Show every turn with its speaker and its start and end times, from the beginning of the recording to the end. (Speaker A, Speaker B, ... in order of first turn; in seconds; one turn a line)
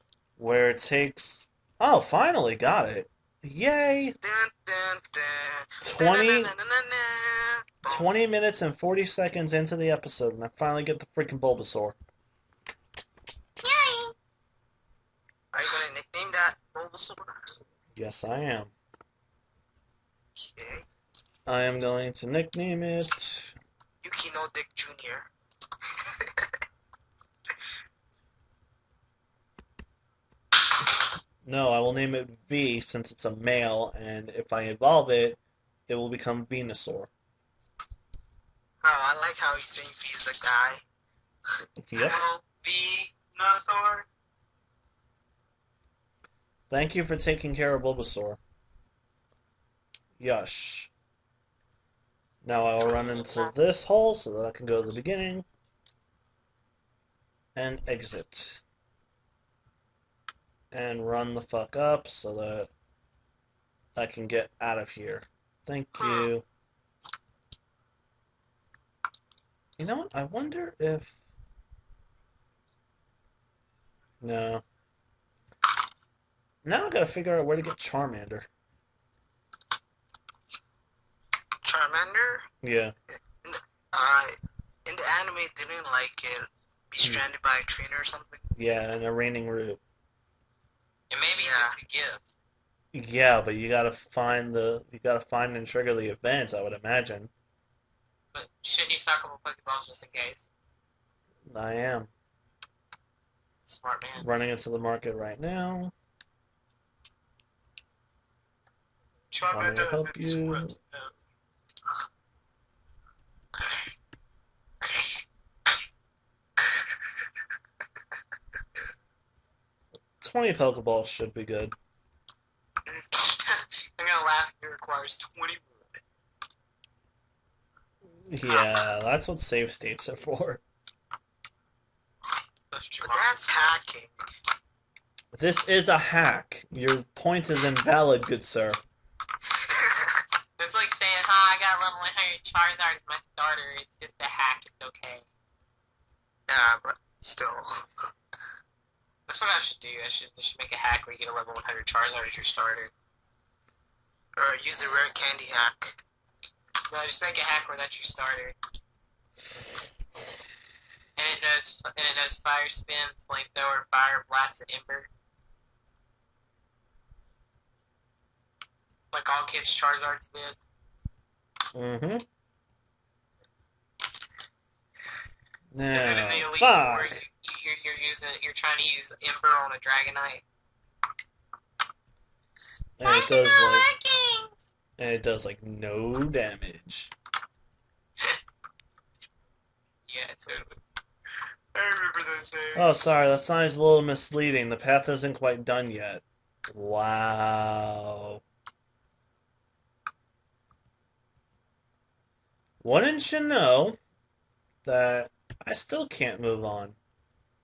Speaker A: 0.4-4.2
Speaker B: 4.2-8.1
Speaker A: 5.8-6.5
Speaker A: 7.8-11.9
Speaker C: 13.6-14.1
Speaker B: 15.5-17.5
Speaker A: 17.9-18.7
Speaker B: 20.4-20.9
Speaker A: 21.4-23.6
Speaker B: 24.0-25.3
Speaker B: 26.2-26.5
Speaker A: 31.4-37.1
Speaker B: 38.8-40.8
Speaker A: 41.8-42.2
Speaker C: 42.0-44.1
Speaker A: 46.7-48.4
Speaker A: 50.2-50.9
Speaker A: 52.4-55.5
Speaker A: 57.5-58.6
Speaker A: 60.7-62.7
Speaker A: 64.0-66.4
Speaker A: 69.8-71.1
Speaker A: 74.2-74.6
Speaker A: 76.6-78.5
Speaker B: 81.6-82.5
Speaker A: 82.6-82.9
Speaker B: 83.4-88.5
Speaker A: 88.5-89.8
Speaker C: 91.1-92.3
Speaker B: 91.4-91.7
Speaker A: 92.9-97.3
Speaker C: 98.3-100.5
Speaker A: 101.5-102.1
Speaker C: 103.7-104.3
Speaker A: 104.2-105.9
Speaker C: 109.3-111.1
Speaker A: 109.5-110.7
Speaker C: 114.8-115.1
Speaker A: 120.2-121.8
Speaker C: 122.9-126.0
Speaker A: 128.2-130.6
Speaker C: 132.7-133.7
Speaker B: 133.0-134.1
Speaker A: 135.3-138.8
Speaker B: 139.8-140.2
Speaker C: 140.6-145.2
Speaker B: 146.5-147.9
Speaker C: 149.3-152.9
Speaker B: 154.4-156.0
Speaker C: 156.9-158.6
Speaker C: 161.2-165.1
Speaker C: 169.1-170.6
Speaker A: 171.7-172.2
Speaker A: 175.7-177.2
Speaker C: 175.9-180.4
Speaker A: 183.0-183.9
Speaker C: 183.0-184.5
Speaker A: 185.0-187.1
Speaker C: 190.1-190.8
Speaker C: 191.7-193.0
Speaker A: 192.7-198.4
Speaker A: 202.8-204.0
Speaker A: 204.8-207.0